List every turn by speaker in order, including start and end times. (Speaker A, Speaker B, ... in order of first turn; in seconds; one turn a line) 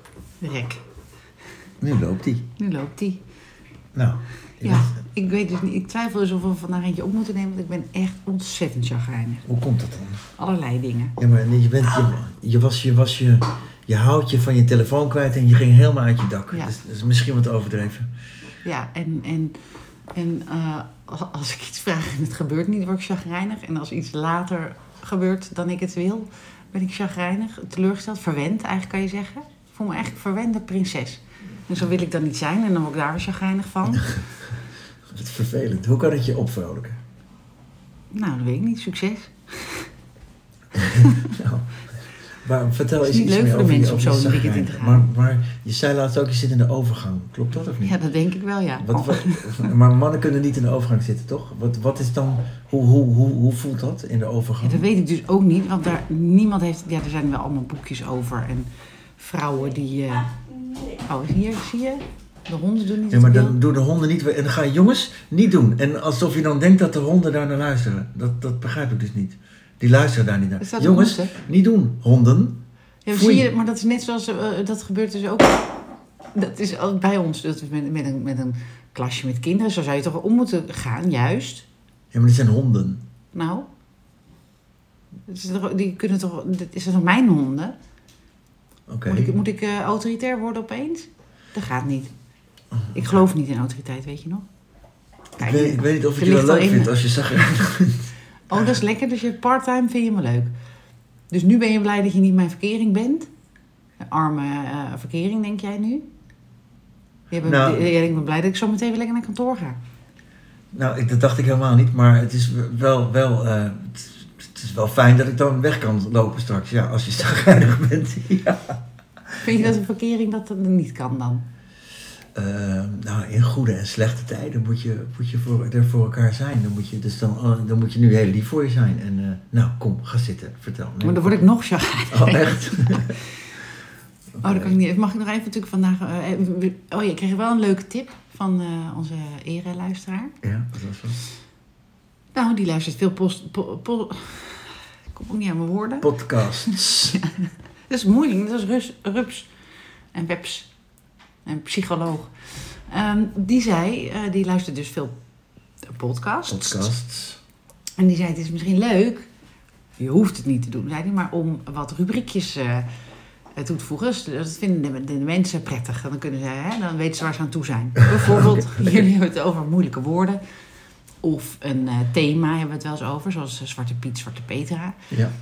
Speaker A: 0.4-0.8
Speaker B: 1.8-2.5
Speaker A: 2.6-3.2
Speaker B: 3.9-4.9
Speaker A: 4.6-9.4
Speaker B: 9.4-10.2
Speaker A: 10.4-11.2
Speaker B: 11.2-18.1
Speaker A: 18.6-19.6
Speaker A: 20.1-34.2
Speaker B: 35.1-37.0
Speaker A: 38.1-39.9
Speaker B: 40.7-48.0
Speaker A: 43.0-45.0
Speaker A: 47.8-49.7
Speaker B: 48.8-54.8
Speaker A: 54.6-60.4
Speaker A: 60.9-63.6
Speaker B: 63.1-72.6
Speaker A: 70.6-71.3
Speaker A: 73.0-75.7
Speaker B: 73.1-73.5
Speaker A: 76.3-81.7
Speaker B: 82.1-83.0
Speaker A: 83.3-83.7
Speaker A: 85.3-87.7
Speaker B: 88.9-89.3
Speaker A: 89.1-92.1
Speaker B: 92.7-93.2
Speaker A: 92.9-94.4
Speaker A: 95.4-97.6
Speaker B: 95.4-98.8
Speaker A: 98.5-100.5
Speaker A: 101.3-103.3
Speaker A: 104.0-106.0
Speaker A: 107.3-109.8
Speaker B: 107.4-107.9
Speaker B: 110.7-119.7
Speaker A: 119.4-121.4
Speaker B: 122.3-131.4
Speaker A: 131.0-133.3
Speaker B: 132.1-133.2
Speaker B: 134.4-134.8
Speaker A: 134.4-140.3
Speaker B: 140.4-141.2
Speaker A: 142.3-146.1
Speaker B: 146.0-147.2
Speaker A: 146.6-149.5
Speaker A: 150.1-150.7
Speaker A: 151.4-155.1
Speaker A: 155.9-156.9
Speaker B: 156.5-157.4
Speaker A: 158.0-159.3
Speaker A: 160.0-162.9
Speaker A: 163.6-170.4
Speaker B: 168.1-169.0
Speaker A: 171.2-175.1